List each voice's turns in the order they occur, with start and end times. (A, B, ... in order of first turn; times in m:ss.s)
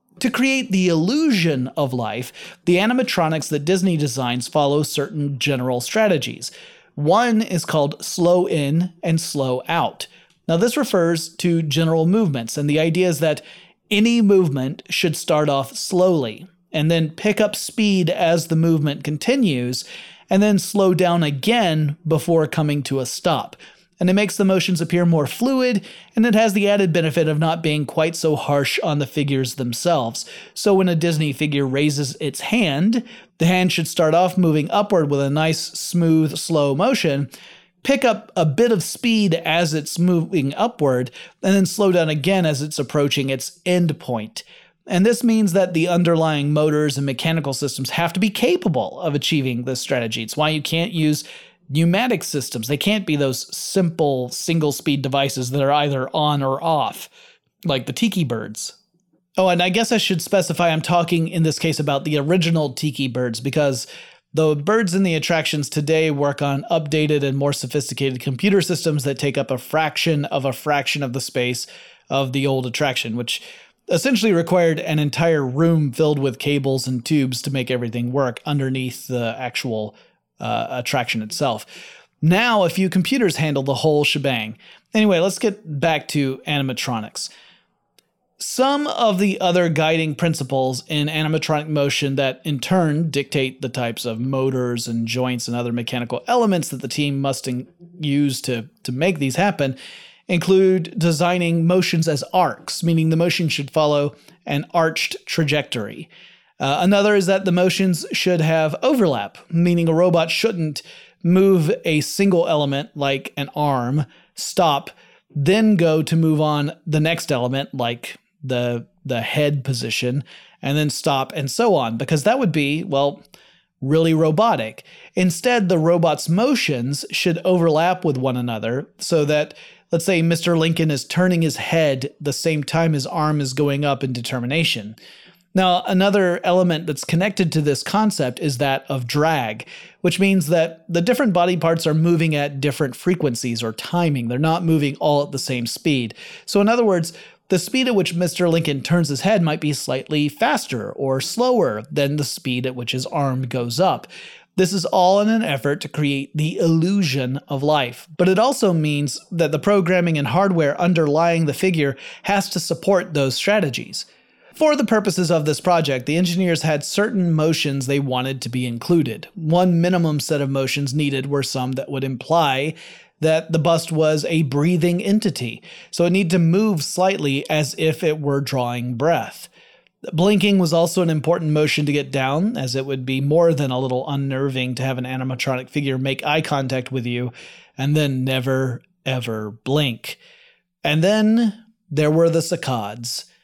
0:00.2-0:37.3 A
0:37.8-0:57.1 A
0:57.6-0:58.8 A
0:59.4-1:21.7 A
1:22.2-1:27.3 A
1:28.4-1:39.8 A
1:40.3-2:03.2 A
2:03.8-2:15.0 A
2:15.5-2:59.5 A
3:00.1-3:10.2 A
3:10.8-3:13.3 A